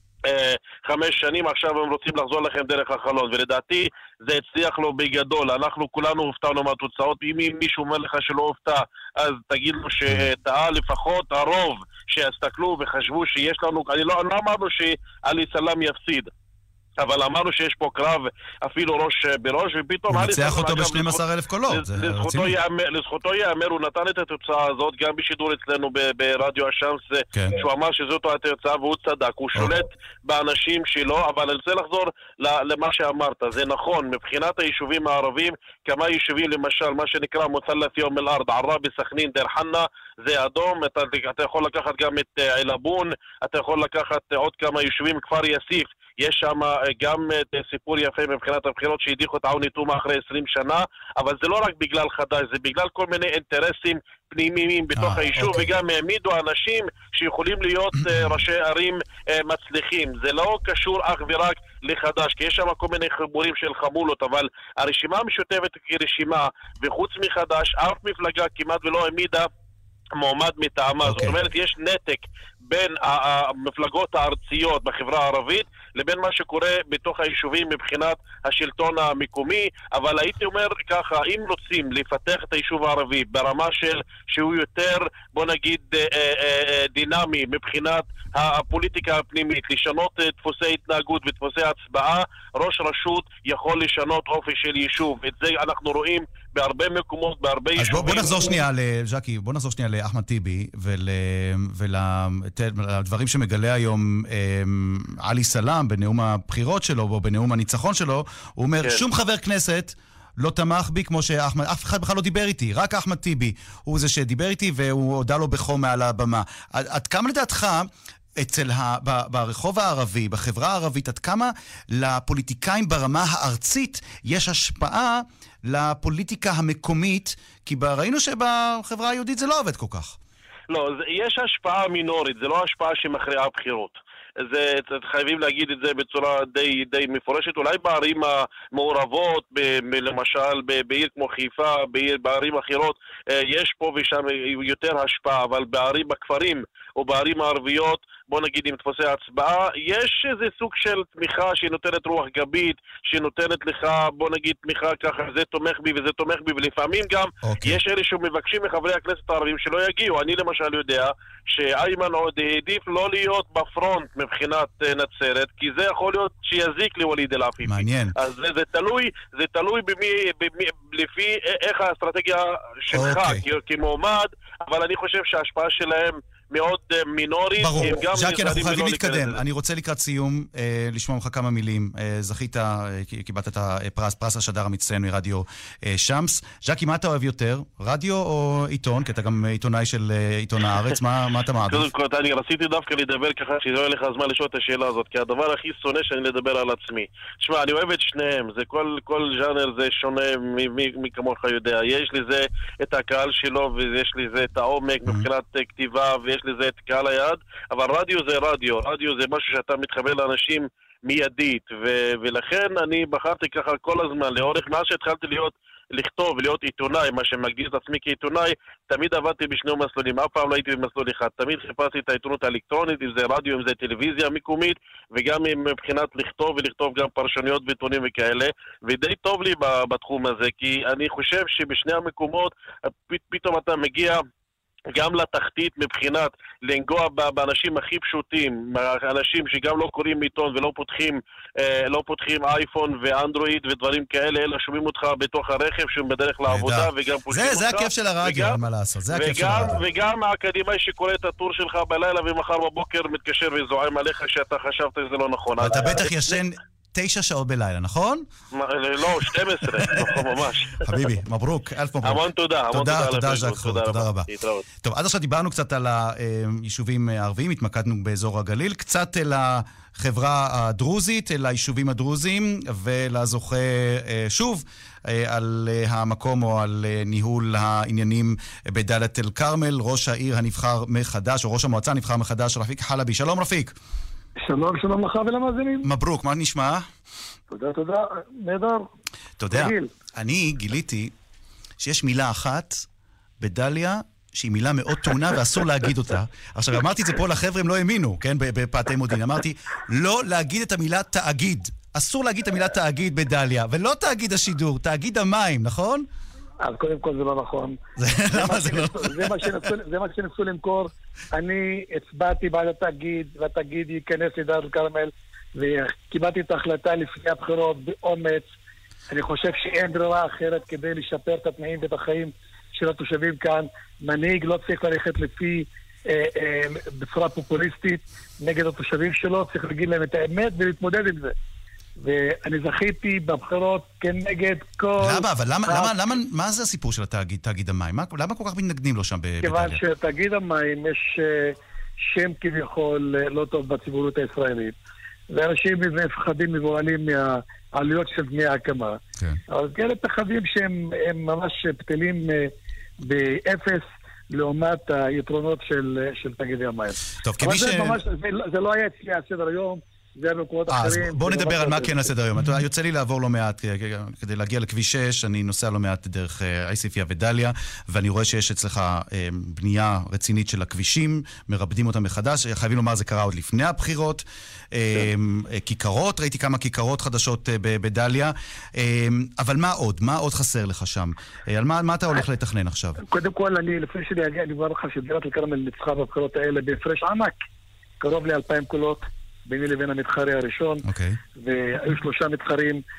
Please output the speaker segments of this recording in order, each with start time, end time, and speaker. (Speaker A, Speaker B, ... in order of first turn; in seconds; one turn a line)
Speaker A: 0.3-16.3
Speaker A: 17.0-21.2
Speaker B: 20.1-22.6
Speaker A: 21.7-69.5
Speaker B: 54.9-55.7
Speaker B: 58.0-58.3
Speaker A: 70.2-98.6
Speaker B: 71.0-71.4
Speaker B: 97.8-130.2
Speaker A: 130.7-179.4
Speaker B: 157.4-157.8
Speaker B: 167.6-168.1
Speaker B: 172.9-173.4
Speaker B: 177.6-191.9
Speaker A: 191.7-232.5
Speaker A: 233.1-234.2
Speaker A: 234.9-248.6
Speaker B: 246.5-249.8
Speaker A: 249.1-256.3
Speaker B: 255.6-258.2
Speaker A: 258.5-260.9
Speaker B: 259.2-260.3
Speaker B: 260.8-264.3
Speaker A: 262.0-264.6
Speaker B: 264.8-283.7
Speaker C: 284.4-285.9
Speaker B: 285.8-286.9
Speaker C: 287.5-288.9
Speaker B: 289.4-291.1
Speaker C: 289.5-289.9
Speaker B: 291.8-292.9
Speaker B: 293.4-306.1
Speaker C: 306.6-318.5
Speaker B: 308.0-309.6
Speaker C: 319.1-331.3
Speaker C: 332.0-335.9
Speaker B: 335.0-339.8
Speaker C: 339.4-341.5
Speaker C: 342.1-344.7
Speaker C: 345.3-349.0
Speaker C: 349.5-352.5
Speaker C: 353.0-362.1
Speaker B: 357.2-358.0
Speaker B: 360.7-383.0
Speaker C: 383.0-387.4
Speaker C: 388.0-390.8
Speaker B: 390.9-391.2
Speaker C: 391.4-392.8